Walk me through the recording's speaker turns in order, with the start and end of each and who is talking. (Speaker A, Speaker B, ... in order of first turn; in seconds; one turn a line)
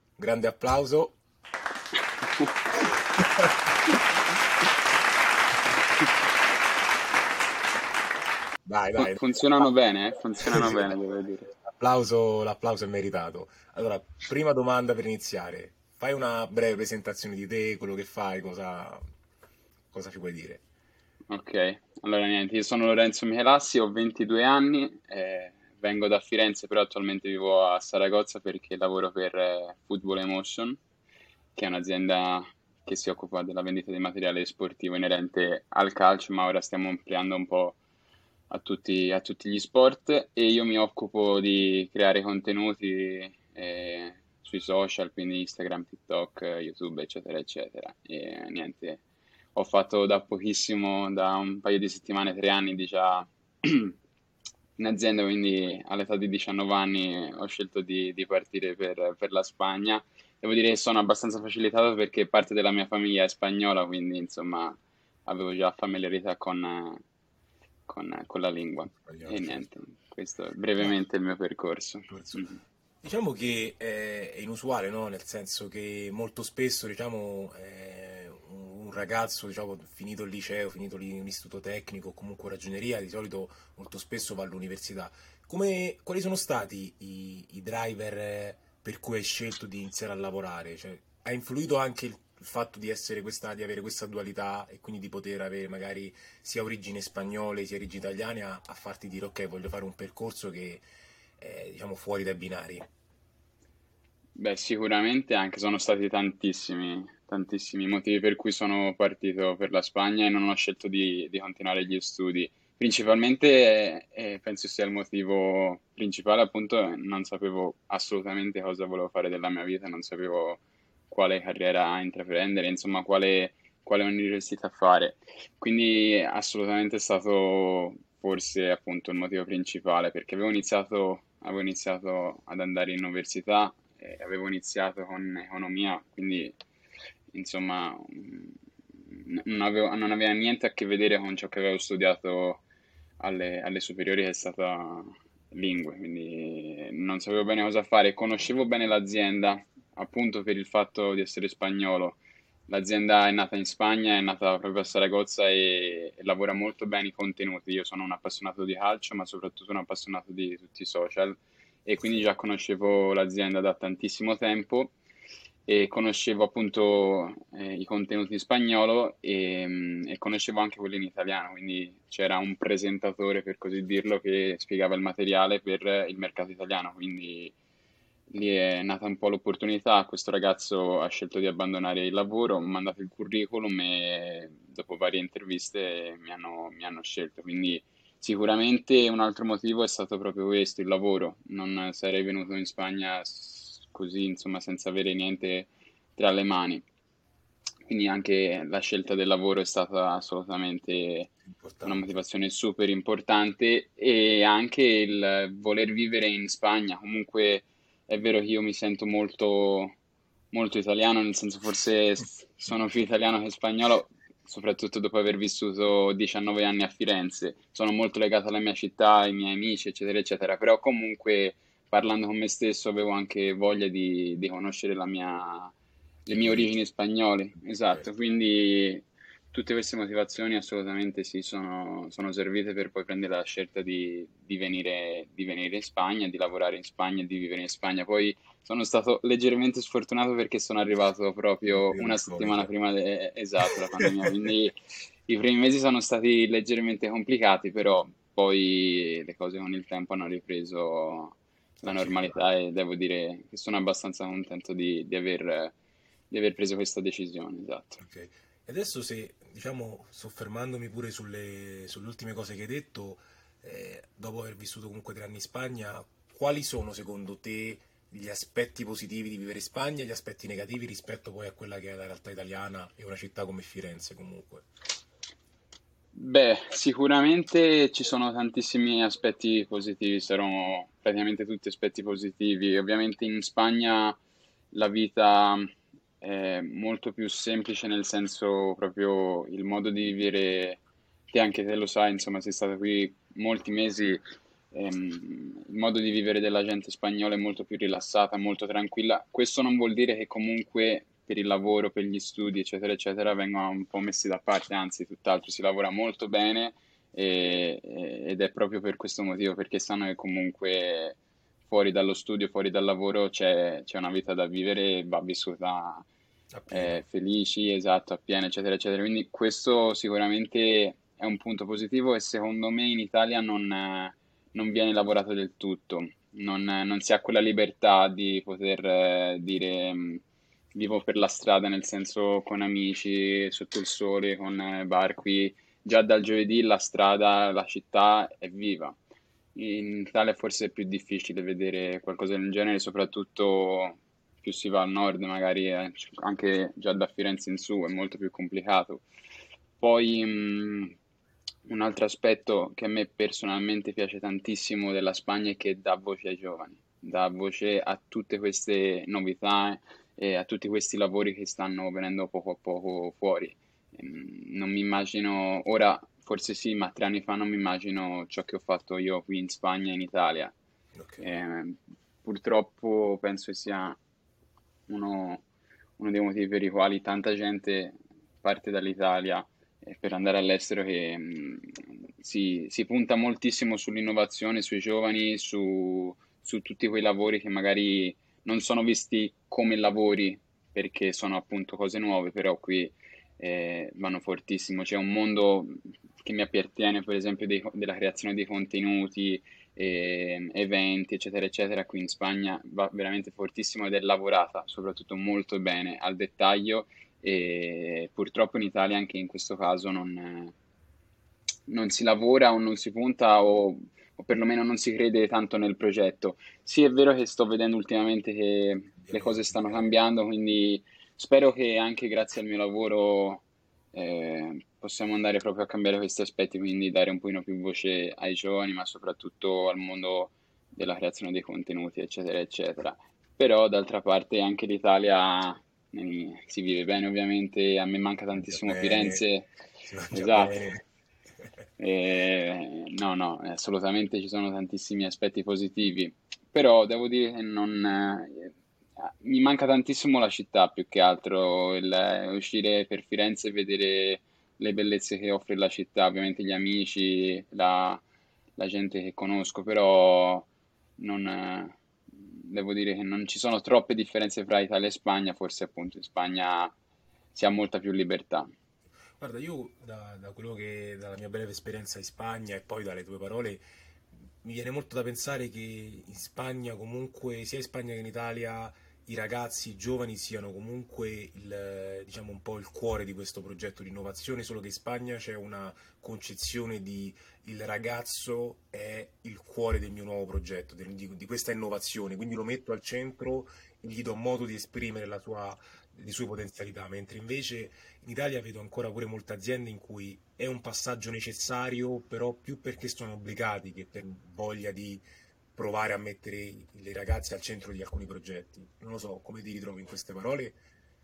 Speaker A: 0.2-1.2
Speaker B: 2.2-2.5
Speaker A: 3.2-3.5
Speaker A: 8.6-9.6
Speaker B: 9.0-11.5
Speaker A: 10.4-10.8
Speaker A: 11.6-19.0
Speaker A: 19.9-20.6
Speaker B: 21.3-30.8
Speaker B: 31.5-37.8
Speaker B: 38.5-49.0
Speaker B: 49.5-53.9
Speaker B: 54.8-67.0
Speaker B: 67.9-72.6
Speaker A: 68.9-69.7
Speaker A: 72.1-100.8
Speaker A: 101.4-102.8
Speaker B: 104.3-136.6
Speaker B: 137.3-142.6
Speaker B: 143.2-164.9
Speaker B: 165.7-177.5
Speaker B: 178.3-196.8
Speaker B: 197.8-201.3
Speaker A: 201.4-202.2
Speaker B: 201.8-209.9
Speaker B: 210.5-225.7
Speaker B: 226.3-244.8
Speaker A: 226.3-226.7
Speaker A: 241.7-242.7
Speaker A: 244.0-244.3
Speaker B: 245.3-255.7
Speaker A: 251.8-252.4
Speaker B: 256.3-258.0
Speaker A: 258.0-274.7
Speaker B: 276.1-284.2
Speaker B: 284.7-294.2
Speaker B: 294.7-311.2
Speaker B: 311.7-316.1
Speaker A: 316.5-317.0
Speaker B: 316.7-330.2
Speaker B: 330.7-339.0
Speaker B: 339.5-349.0
Speaker B: 349.8-350.9
Speaker B: 351.6-370.5
Speaker A: 370.9-371.4
Speaker B: 371.2-374.0
Speaker B: 374.9-375.4
Speaker B: 376.0-410.5
Speaker B: 411.7-439.5
Speaker A: 419.0-419.9
Speaker A: 438.3-439.2
Speaker A: 439.8-440.8
Speaker B: 440.1-440.6
Speaker B: 441.8-458.0
Speaker B: 458.6-466.7
Speaker B: 467.3-468.5
Speaker A: 469.2-473.6
Speaker A: 474.4-505.0
Speaker A: 505.5-510.6